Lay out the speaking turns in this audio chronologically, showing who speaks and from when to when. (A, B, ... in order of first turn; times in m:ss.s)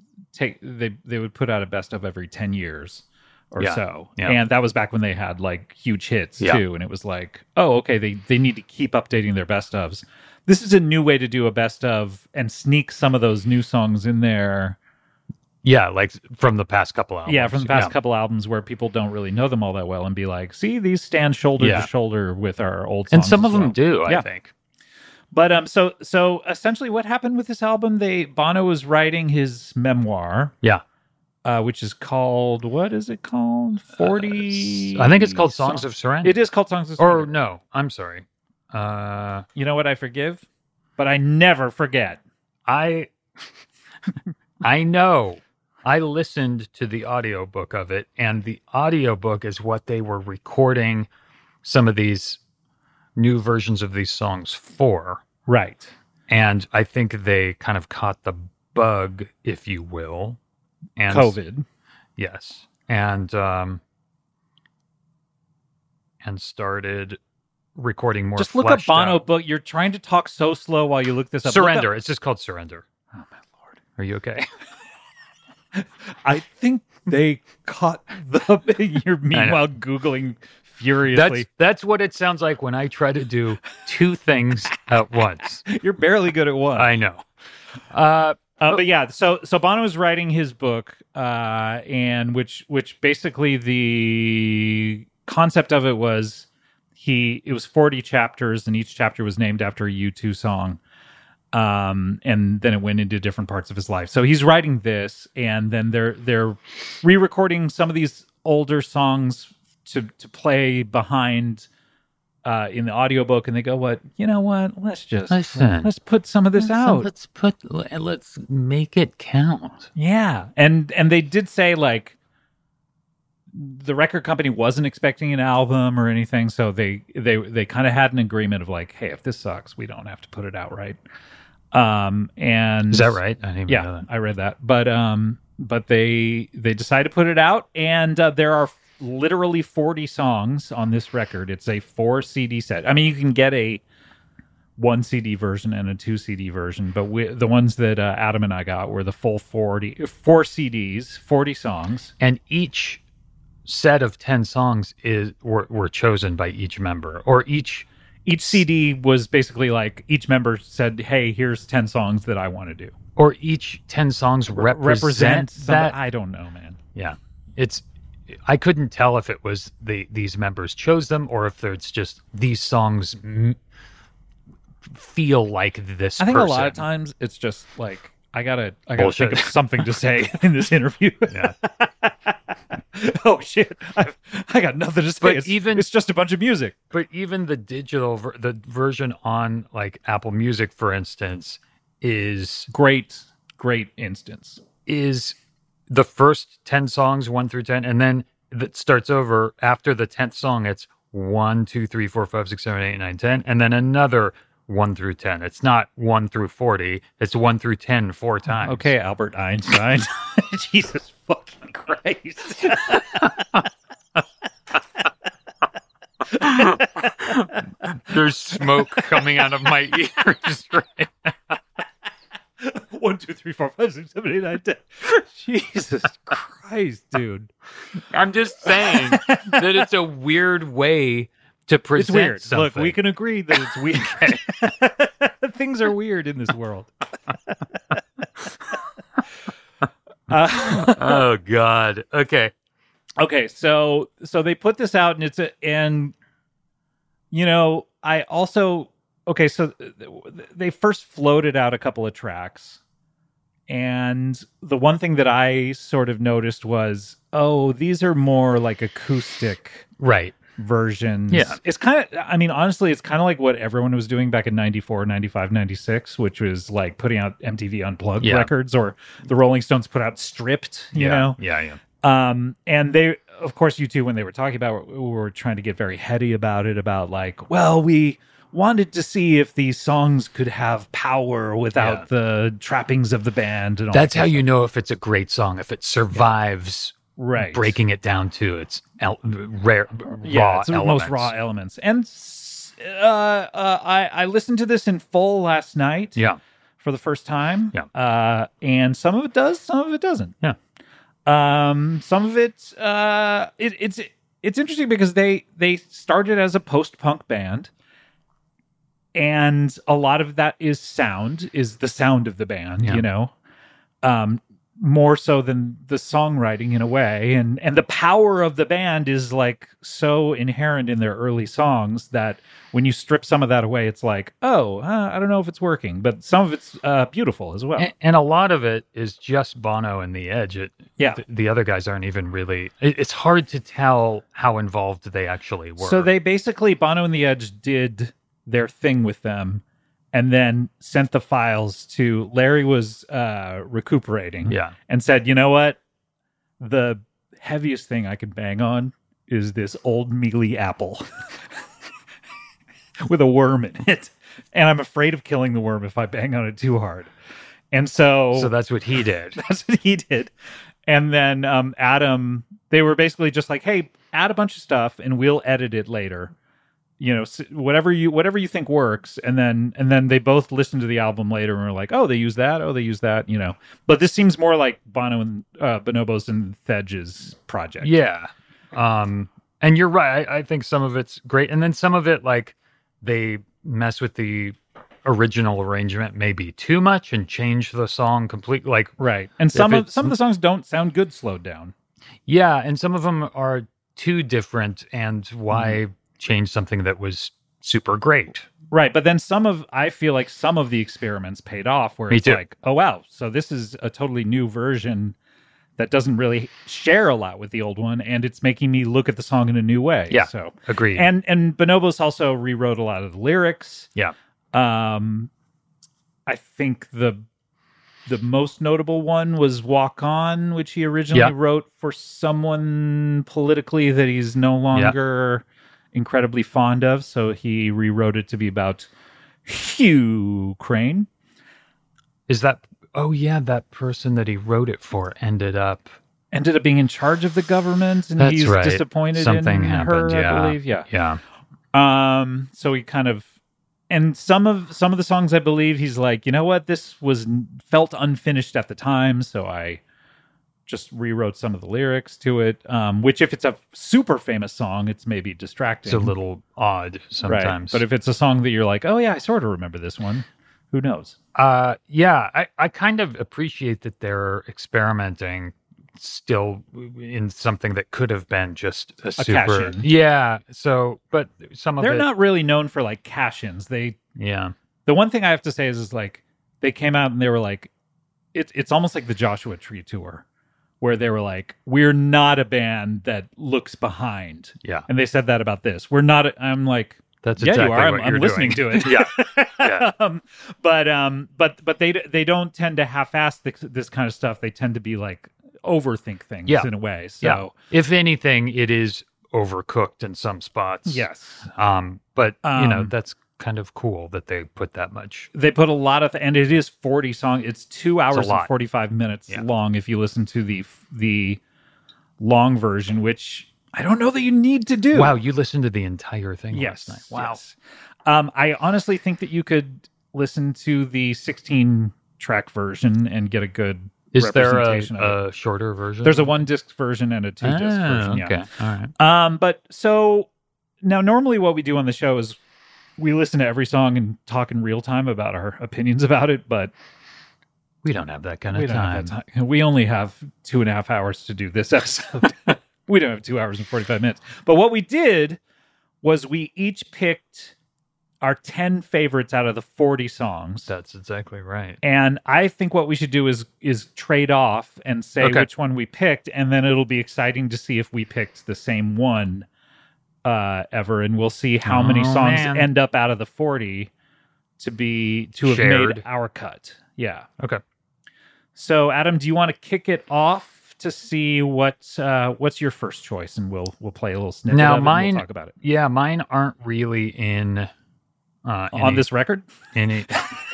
0:00.3-0:14.8 A
0:03.6-0:04.4 B
0:15.6-0:17.9 B
0:17.2-0:24.2 A
0:21.6-0:21.9 B
0:23.1-0:24.5 B
0:25.3-0:30.5 A
0:31.4-0:37.3 A
0:34.0-0:36.4 B
0:37.0-0:39.5 B
0:39.6-0:40.4 A
0:41.0-0:42.2 A
0:42.6-0:43.1 B
0:44.6-0:51.1 B
0:51.6-0:52.4 B
0:53.2-0:55.2 B
0:55.5-0:55.9 A
0:56.3-1:00.4 B
1:01.0-1:01.4 B
1:01.1-1:01.6 A
1:02.2-1:03.8 B
1:06.2-1:07.2 B
1:07.7-1:09.2 B
1:08.4-1:11.9 A
1:11.4-1:12.8 B
1:13.1-1:13.7 A
1:14.0-1:14.5 B
1:15.7-1:21.4 A
1:19.3-1:19.6 B
1:21.1-1:25.6 B
1:25.6-1:26.9 A
1:26.8-1:27.2 B
1:27.9-1:28.8 B
1:28.6-1:40.8 A
1:41.5-1:51.7 A
1:52.4-1:57.1 A
1:55.3-1:55.9 B
1:56.6-1:59.9 B
1:59.9-2:02.2 A
2:03.5-2:11.0 A
2:11.7-2:23.8 A
2:12.9-2:14.1 B
2:24.8-2:32.1 A
2:32.2-2:33.0 B
2:33.6-2:37.8 B
2:38.2-2:42.9 A
2:43.2-2:46.0 B
2:44.5-2:46.8 A
2:46.9-2:53.6 B
2:54.9-2:56.8 B
2:56.2-3:06.7 A
2:59.0-2:59.6 B
3:01.3-3:01.5 B
3:05.2-3:05.9 B
3:06.9-3:12.7 B
3:12.7-3:14.6 A
3:14.8-3:15.4 B
3:15.9-3:28.9 B
3:28.6-3:33.6 A
3:36.3-3:37.5 A
3:36.4-3:41.6 B
3:42.6-3:47.5 A
3:48.1-3:53.0 B
3:48.9-3:49.8 A
3:52.0-3:56.9 A
3:57.5-3:58.0 A
4:00.3-4:01.2 A
4:00.6-4:02.5 B
4:03.2-4:06.1 A
4:07.3-4:12.8 A
4:13.7-4:19.9 A
4:20.0-4:20.4 B
4:20.6-4:31.4 A
4:21.3-4:21.6 B
4:28.2-4:28.5 B
4:30.9-4:31.8 B
4:32.0-4:44.5 A
4:41.8-4:42.0 B
4:43.9-4:51.3 B
4:47.2-4:47.8 A
4:50.2-4:56.2 A
4:56.8-5:00.4 A
5:01.2-5:07.7 A
5:09.1-5:13.3 A
5:14.0-5:27.9 A
5:27.8-5:36.1 B
5:35.8-5:39.6 A
5:40.1-5:45.8 A
5:44.5-5:44.7 B
5:46.6-5:51.0 A
5:53.0-5:57.1 A
5:57.7-5:58.5 A
5:58.3-5:59.4 B
5:59.4-6:00.3 A
6:00.8-6:06.3 A
6:07.0-6:18.0 A
6:17.8-6:28.9 B
6:29.0-6:31.7 A
6:29.5-6:30.1 B
6:32.2-6:38.5 B
6:35.5-6:35.8 A
6:38.7-6:45.1 A
6:42.1-6:42.4 B
6:45.8-6:53.9 A
6:50.1-6:51.0 B
6:54.5-6:55.3 A
6:56.3-6:57.2 A
6:58.0-7:08.9 A
7:09.4-7:11.1 A
7:12.3-7:15.9 B
7:16.3-7:20.9 A
7:18.2-7:21.2 B
7:21.7-7:23.3 A
7:23.9-7:29.8 A
7:30.7-7:36.1 A
7:35.8-7:37.8 B
7:37.2-7:41.2 A
7:41.3-7:52.1 B
7:49.2-7:49.9 A
7:51.8-7:54.0 A
7:54.2-7:54.5 B
7:54.8-7:57.7 A
7:58.3-8:00.2 A
8:00.8-8:17.5 A
8:07.2-8:09.9 B
8:17.2-8:25.3 B
8:20.8-8:21.5 A
8:22.4-8:22.9 A
8:25.3-8:31.4 A
8:28.1-8:28.5 B
8:32.2-8:35.1 A
8:34.9-8:37.4 B
8:36.5-8:45.2 A
8:44.1-8:46.3 B
8:46.0-8:48.4 A
8:47.4-8:48.9 B
8:49.0-8:50.3 A
8:50.8-8:52.4 A
8:53.0-8:56.7 A
8:57.8-8:59.1 B
8:58.5-9:05.4 A
9:06.0-9:07.5 A
9:08.2-9:10.7 A
9:10.7-9:11.8 B
9:11.8-9:19.5 A
9:15.2-9:15.5 B
9:20.2-9:23.9 A
9:21.6-9:22.7 B
9:24.6-9:27.3 A
9:25.4-9:26.0 B
9:28.5-9:35.6 A
9:34.5-9:37.7 B
9:38.4-9:39.0 B
9:38.7-9:39.5 A
9:39.7-9:40.2 B